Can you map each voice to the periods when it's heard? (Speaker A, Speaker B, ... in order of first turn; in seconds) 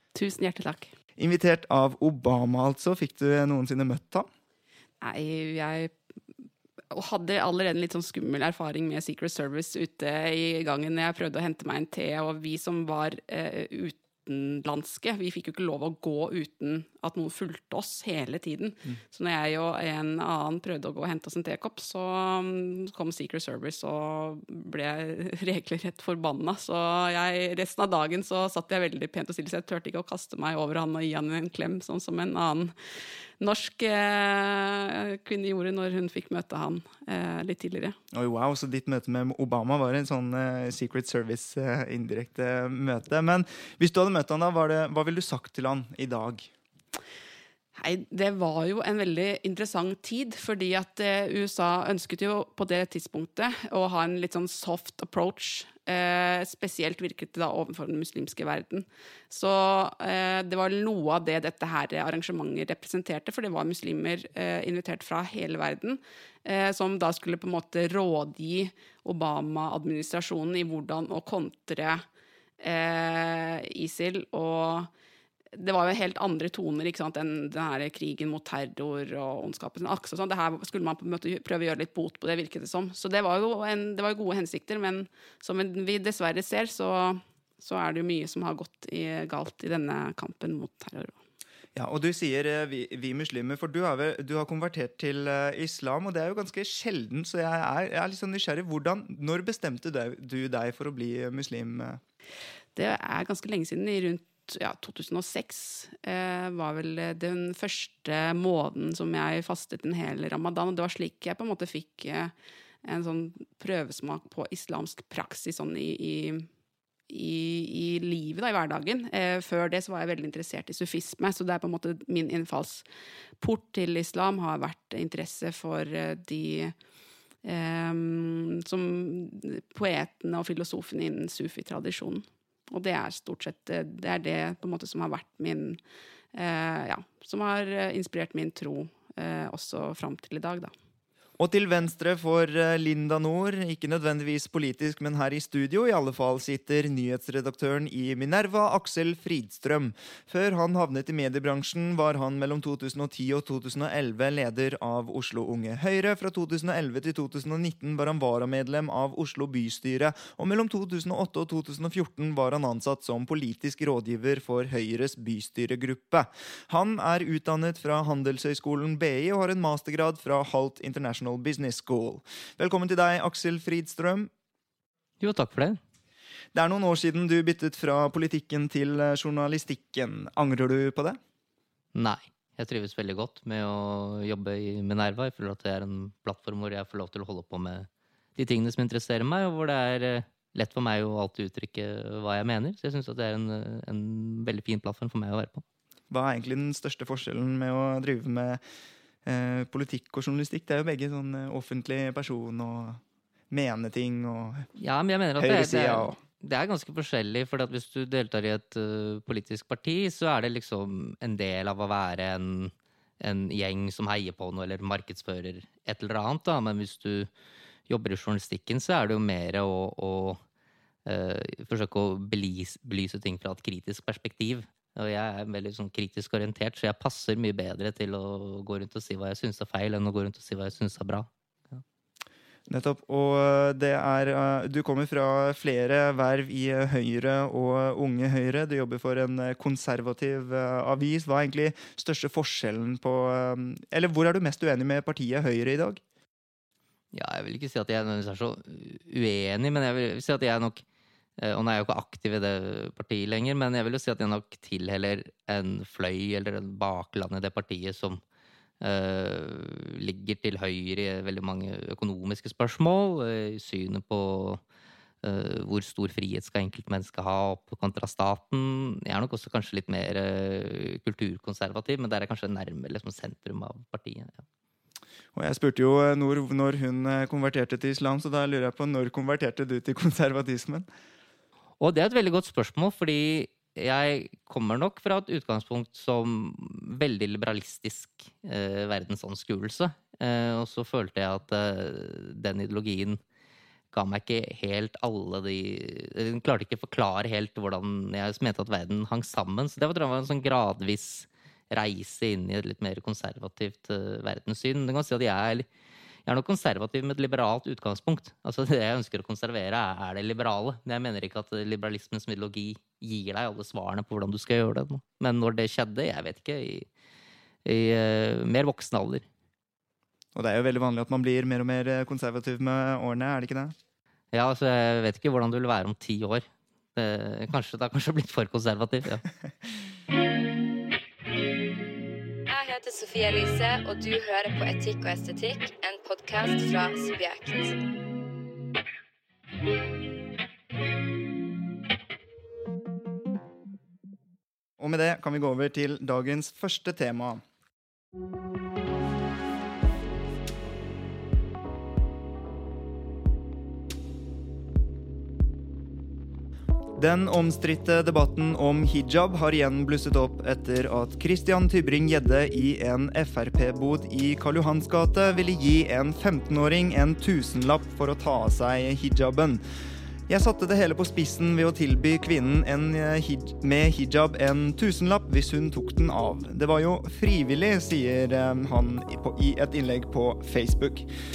Speaker A: 0.1-0.9, 5.0-5.9, 6.9-32.7, 33.4-38.0, 47.8-72.0, 72.6-74.9, 75.5-91.2, 102.8-112.3, 112.8-116.5, 117.1-122.8, 123.4-126.7, 127.4-135.8, 136.3-140.7
Speaker B: 1.2-4.3, 38.1-46.5, 91.7-102.0, 141.4-174.3, 176.5-181.2, 196.1-198.6, 199.2-204.7, 205.4-206.2, 232.7-246.0, 275.4-280.9, 320.4-323.8, 344.8-347.4, 356.9-369.6, 370.3-381.1
Speaker C: 175.2-175.8, 181.9-195.6, 204.8-217.3, 217.9-220.4, 221.1-231.8, 247.1-250.8, 251.4-258.2, 258.8-264.6, 265.2-274.4, 281.8-293.2, 293.9-305.6, 306.2-316.9, 317.6-319.2, 324.3-329.3
Speaker D: 332.5-337.8